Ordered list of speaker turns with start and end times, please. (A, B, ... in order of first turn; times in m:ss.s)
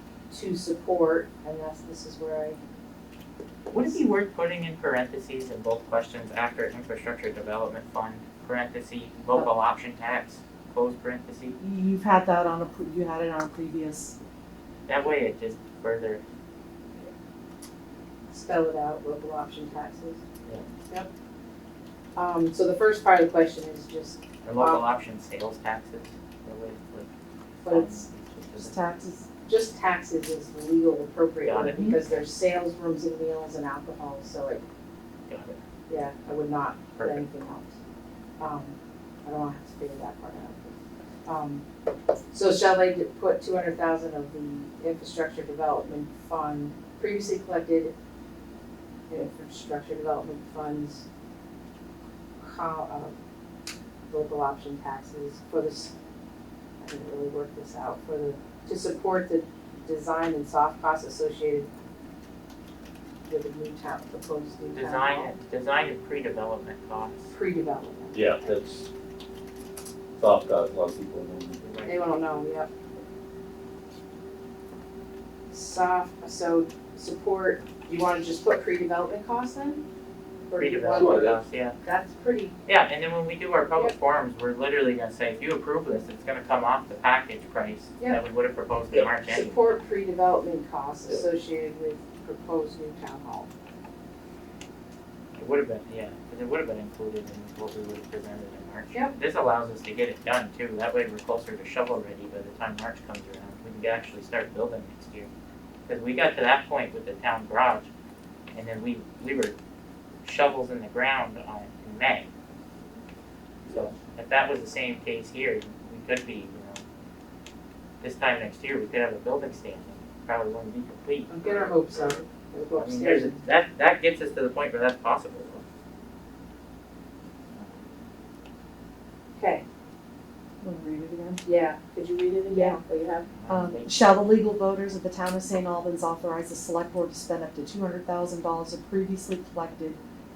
0:00.3-0:02.6 A
0:03.7-0:11.6 B
0:11.6-0:14.2 C
0:14.9-0:16.2 B
0:18.3-0:20.2 A
0:22.2-0:24.8 A
0:24.4-0:27.1 B
0:27.6-0:28.1 A
0:27.7-0:28.8 B
0:28.6-0:29.3 C
0:29.4-0:34.6 A
0:31.4-0:32.3 B
0:35.3-0:35.6 B
0:35.9-0:37.7 A
0:37.0-0:37.2 B
0:38.4-0:40.7 A
0:41.3-0:41.6 A
0:42.3-0:47.9 A
0:49.1-0:51.0 A
0:52.4-0:53.2 A
0:54.1-0:55.9 A
0:56.8-1:01.7 A
1:03.3-1:05.4 A
1:04.8-1:07.3 B
1:07.3-1:08.5 A
1:08.1-1:08.9 D
1:10.2-1:11.6 D
1:11.6-1:12.1 B
1:11.8-1:12.7 A
1:15.5-1:19.8 A
1:20.5-1:21.3 A
1:20.6-1:21.8 B
1:21.0-1:21.4 D
1:21.8-1:22.6 A
1:22.7-1:29.6 B
1:29.3-1:33.5 A
1:35.4-1:45.3 B
1:45.9-1:47.9 B
1:48.5-1:49.6 B
1:50.2-1:52.3 B
1:53.7-1:56.8 B
1:58.0-2:01.4 B
2:01.3-2:03.4 A
2:02.8-2:05.6 B
2:07.5-2:07.8 B
2:09.4-2:09.6 A
2:10.6-2:11.4 C
2:11.4-2:13.3 A
2:12.5-2:12.8 C
2:13.4-2:14.3 B
2:13.5-2:20.0 C